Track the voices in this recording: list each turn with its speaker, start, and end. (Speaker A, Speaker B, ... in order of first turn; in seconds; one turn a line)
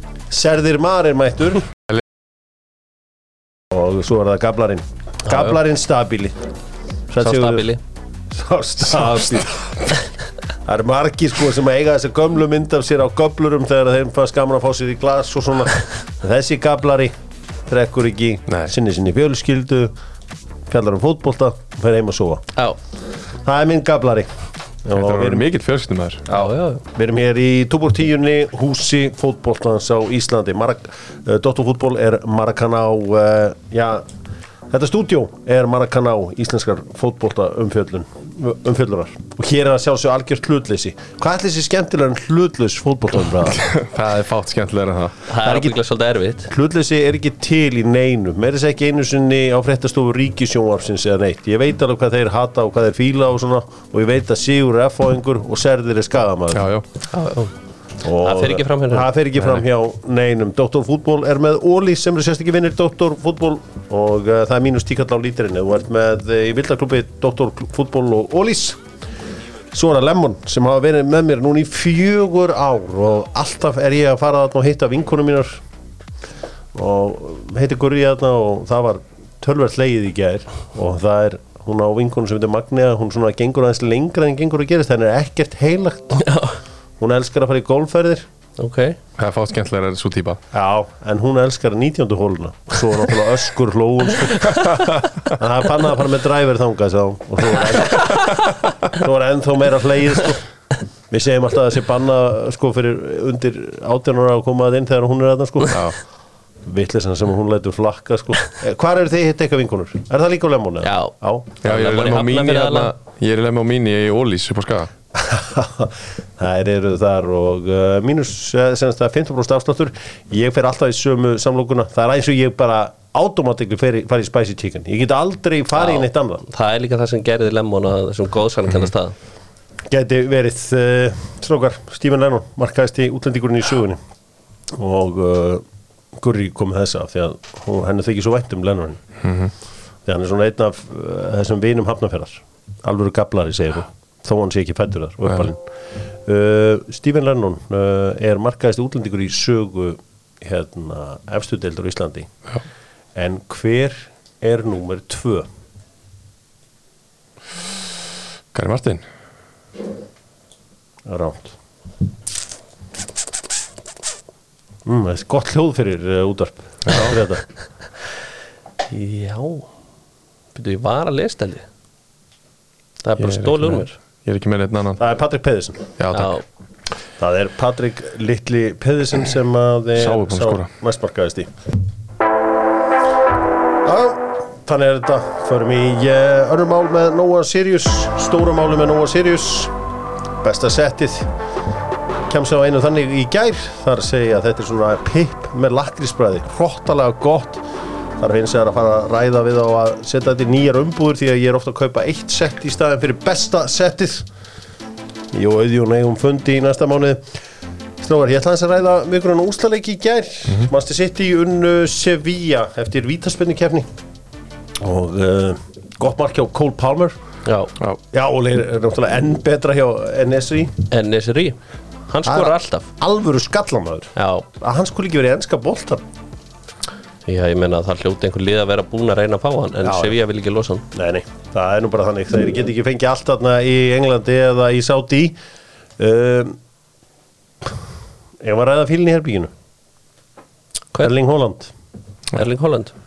Speaker A: 0.3-1.7
Speaker A: 3.7-6.4
Speaker A: 7.1-7.7
Speaker B: 7.2-7.8
Speaker A: 8.3-9.9
Speaker A: 10.6-17.1
Speaker A: 17.7-19.9
Speaker C: 18.5-18.7
Speaker A: 20.7-22.4
Speaker A: 23.4-24.3
Speaker A: 24.8-25.4
Speaker C: 24.9-26.2
Speaker B: 26.3-26.8
Speaker A: 26.9-34.0
Speaker A: 34.7-43.6
Speaker C: 43.5-45.2
Speaker B: 45.3-46.5
Speaker A: 45.4-45.8
Speaker A: 46.5-56.6
Speaker C: 56.5-56.9
Speaker B: 57.1-57.5
Speaker A: 58.0-68.8
Speaker B: 58.2-59.1
Speaker A: 69.7-75.6
Speaker A: 76.7-86.3
Speaker B: 86.2-86.6
Speaker A: 87.0-88.3
Speaker B: 88.6-89.0
Speaker C: 89.2-90.4
Speaker A: 90.5-100.4
Speaker C: 94.7-95.0
Speaker A: 101.1-105.9
Speaker C: 105.7-106.0
Speaker A: 106.7-111.5
Speaker B: 110.8-112.9
Speaker C: 111.6-114.9
Speaker A: 115.1-126.4
Speaker B: 125.8-129.1
Speaker A: 129.9-134.0
Speaker A: 134.7-135.6
Speaker A: 136.2-139.0
Speaker C: 139.2-139.5
Speaker A: 140.1-145.6
Speaker A: 146.2-152.3
Speaker A: 153.1-155.5
Speaker C: 158.5-159.0
Speaker A: 161.1-161.5
Speaker A: 164.8-167.4
Speaker B: 168.9-169.7
Speaker B: 170.5-171.7
Speaker B: 173.0-173.9
Speaker C: 173.2-175.0
Speaker A: 175.0-175.9
Speaker C: 176.0-176.4
Speaker B: 176.1-176.4
Speaker A: 177.2-181.5
Speaker C: 179.9-180.7
Speaker A: 183.8-189.7
Speaker A: 190.4-191.3
Speaker A: 192.3-197.6
Speaker A: 198.2-204.3
Speaker A: 205.3-207.2
Speaker A: 208.0-213.9
Speaker A: 214.8-217.1
Speaker B: 217.4-217.7
Speaker A: 218.1-220.8
Speaker B: 220.9-221.6
Speaker B: 222.1-222.9
Speaker A: 222.2-226.0
Speaker B: 224.2-224.4
Speaker B: 227.2-230.8
Speaker A: 229.8-230.1
Speaker A: 230.9-235.3
Speaker A: 236.0-236.6
Speaker A: 238.4-239.5
Speaker A: 241.0-241.7
Speaker B: 242.3-242.9